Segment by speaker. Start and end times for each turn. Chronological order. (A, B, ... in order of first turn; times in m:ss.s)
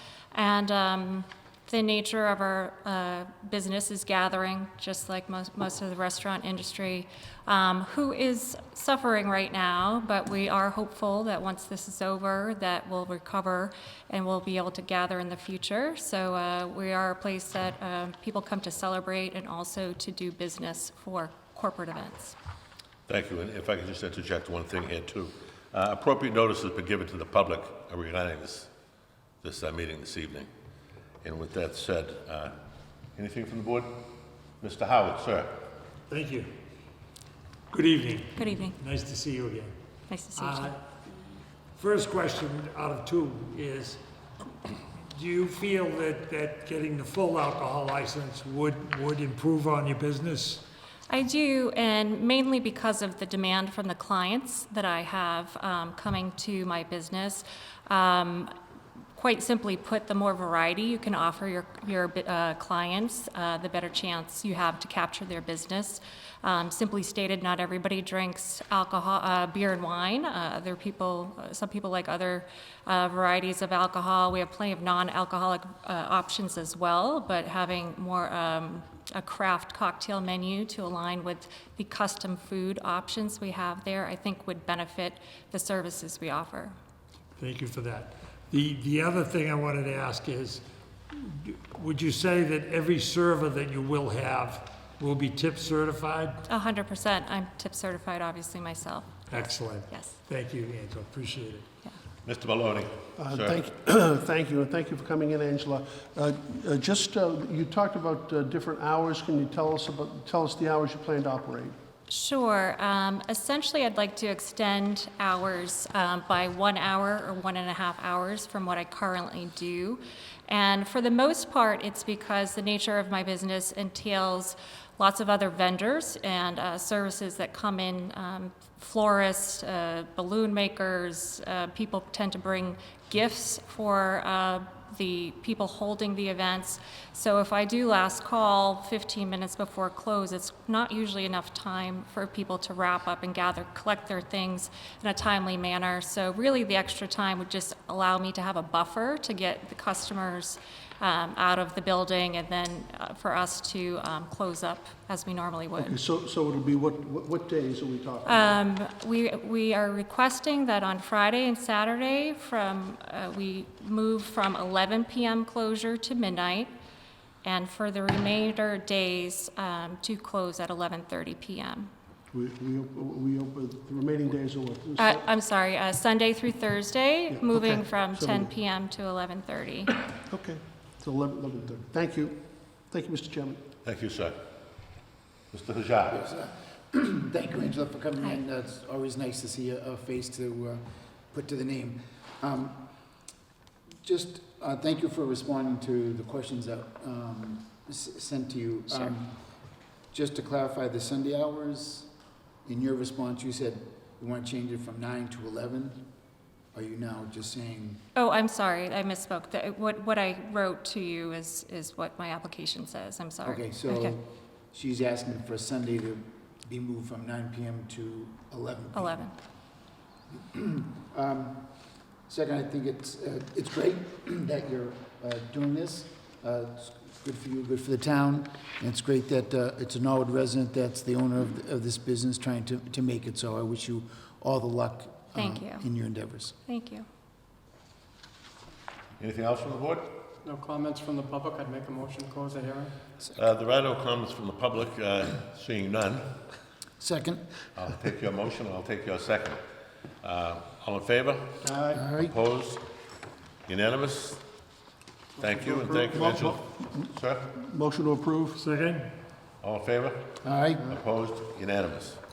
0:00.3-0:22.4 A
0:23.1-0:28.7 B
0:29.4-0:30.5 B
0:31.2-0:32.5 B
0:33.2-0:34.0 B
0:34.6-0:35.6 B
0:36.1-0:36.5 C
0:37.7-0:39.7 C
0:38.4-0:38.7 A
0:40.1-0:40.7 A
0:40.4-0:40.8 C
0:41.7-0:44.0 C
0:45.1-0:50.6 C
0:51.1-0:58.5 A
0:59.2-1:26.8 A
1:27.4-1:36.4 C
1:36.5-1:40.2 A
1:39.3-1:41.6 C
1:42.2-1:43.6 B
1:43.2-1:51.8 D
1:52.1-2:36.0 A
2:35.8-2:38.6 D
2:38.2-2:46.7 A
2:47.4-2:51.9 A
2:52.3-2:55.2 D
2:55.0-2:59.9 A
2:57.3-2:58.5 D
3:00.2-3:03.6 D
3:03.8-3:04.3 B
3:05.5-3:06.2 B
3:06.1-3:12.8 E
3:14.0-3:19.3 E
3:20.1-3:22.1 E
3:22.6-3:26.0 E
3:26.7-3:28.0 E
3:28.2-3:34.2 A
3:33.4-3:39.3 E
3:38.9-3:39.3 A
3:40.3-3:41.6 E
3:42.3-3:56.5 E
3:55.3-3:55.9 A
3:56.7-3:57.1 A
3:59.2-4:00.1 B
4:00.4-4:02.9 F
4:03.3-4:06.2 B
4:07.0-4:07.6 E
4:07.8-4:09.6 B
4:10.2-4:11.6 B
4:11.9-4:12.3 E
4:12.2-4:12.8 B
4:13.7-4:14.4 B
4:15.4-4:17.5 B
4:15.6-4:18.6 D
4:18.6-4:19.1 C
4:19.6-4:22.2 B
4:20.4-4:20.9 E